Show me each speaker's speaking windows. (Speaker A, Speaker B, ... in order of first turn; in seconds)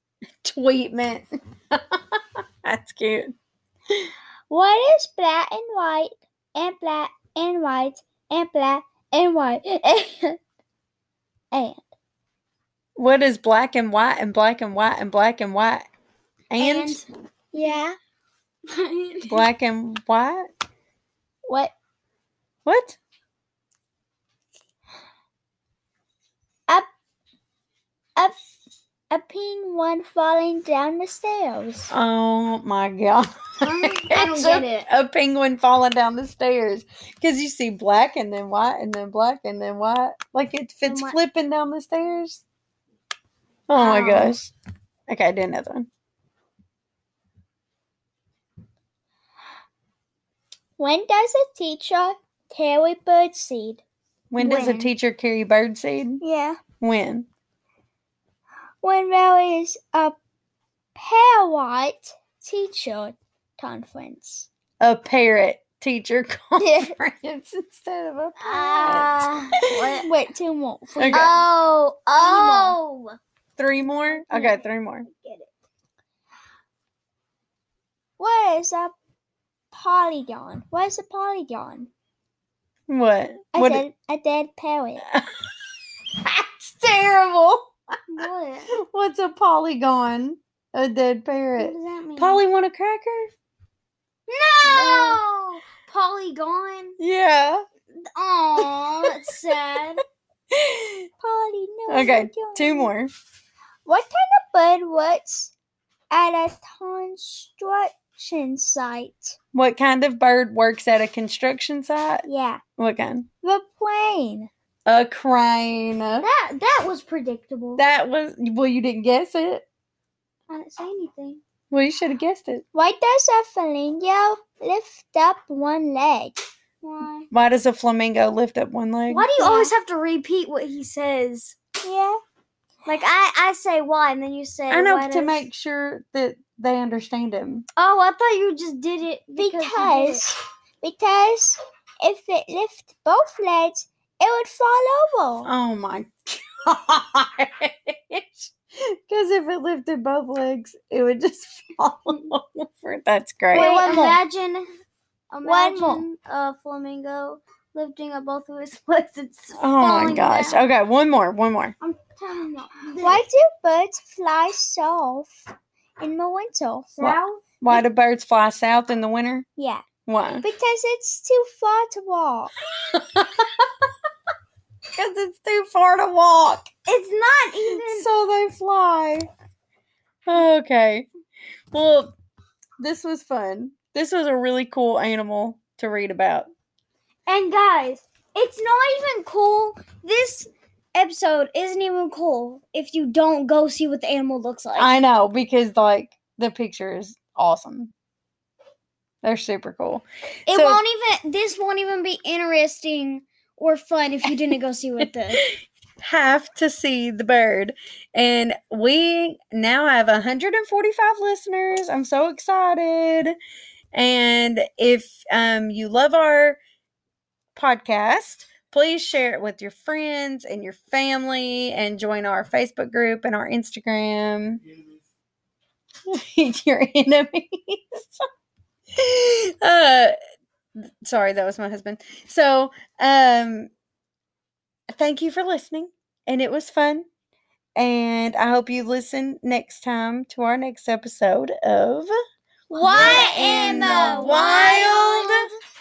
Speaker A: 0.4-3.4, 13.0-15.9, 16.5-17.0, 19.3-20.5, 22.7-23.0, 31.9-42.5, 43.7-44.5, 45.1-45.9, 54.3-56.2, 56.8-57.3, 64.8-69.3, 71.0-71.3, 73.6-75.1, 82.9-83.9, 86.2-87.7, 88.8-93.3, 94.7-95.1, 97.0-97.7, 100.5-100.9, 101.9-103.1, 109.5-112.2, 112.8-113.3, 114.9-116.3, 117.8-119.7, 121.7-122.6, 127.3-129.3, 134.7-137.7, 145.4-148.5, 149.1-154.2, 159.6-161.8, 167.0-169.5, 170.1-170.5, 172.9-173.7, 175.0-176.7, 177.7-179.3, 180.3-181.1, 181.7-182.1, 182.8-186.5, 194.8-197.9, 199.2-200.8, 206.0-213.3, 213.9-216.6, 217.6-224.6, 226.1-228.3, 229.0-230.2, 231.0-233.7, 234.9-237.1, 237.8-242.1, 242.8-245.4
Speaker B: 4.5-10.4, 11.5-11.8, 17.5-17.9, 29.1-31.9, 50.8-53.8, 54.4-54.9, 56.2-56.6, 58.8-60.2, 61.0-64.5, 66.6-66.9, 68.5-72.8, 74.1-75.5, 78.2-78.9, 79.7-81.9, 83.5-85.0, 94.8-95.2, 101.2-102.9, 103.9-105.5, 106.1-109.4, 112.2-112.6, 113.4-114.5, 122.7-126.4, 129.4-129.7, 131.8-132.2, 139.4-145.5, 153.5-154.2, 155.4-156.1, 163.0-165.4, 166.0-166.9, 169.6-169.8, 170.4-172.5, 242.7-244.9
Speaker C: 16.5-17.0, 18.7-19.5, 33.6-34.9, 40.9-41.2, 43.8-44.4, 68.5-69.5, 71.1-73.1, 88.1-88.7, 91.6-92.4, 94.3-97.0, 98.1-100.0, 116.2-117.8, 120.5-121.4, 126.8-127.3, 129.1-131.6, 132.9-135.5, 137.8-140.3, 153.5-154.7, 155.3-160.7, 161.8-163.2, 167.0-167.8, 176.9-178.1, 187.3-194.9, 200.5-205.4, 242.7-245.5